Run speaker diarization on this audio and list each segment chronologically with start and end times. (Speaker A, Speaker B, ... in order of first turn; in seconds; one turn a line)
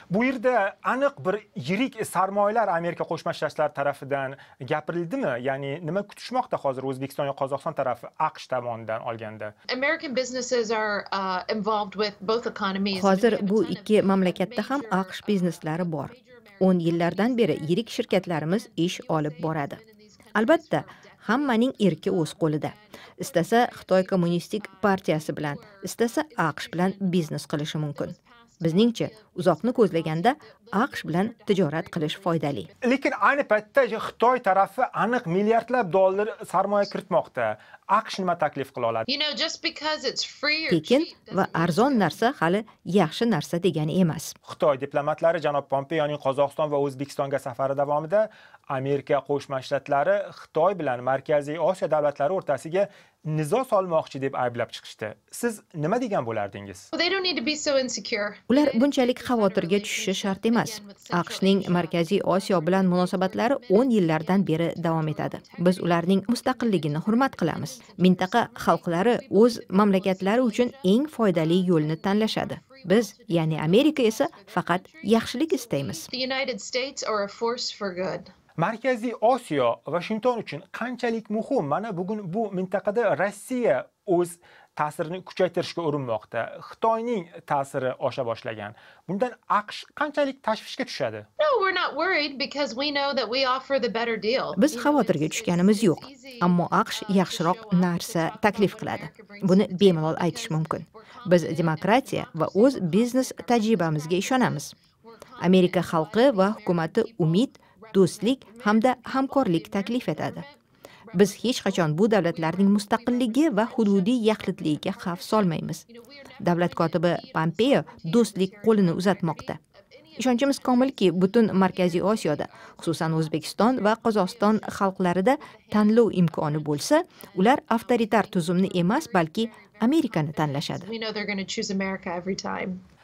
Speaker A: 0.1-9.5
Speaker B: 9.7-32.8
Speaker C: 12.9-19.8
Speaker C: 20.3-32.7
Speaker A: 32.8-39.0
Speaker B: 39.1-42.2
Speaker C: 40.7-44.3
Speaker A: 44.5-56.9
Speaker B: 56.9-78.3
Speaker C: 58.5-76.1
Speaker A: 78.6-91.2
Speaker B: 91.4-110.5
Speaker C: 94.5-104.7
Speaker C: 105.4-110.4
Speaker B: 111.1-132.8
Speaker C: 111.1-115.8
Speaker C: 116.4-119.6
Speaker C: 120.2-130.9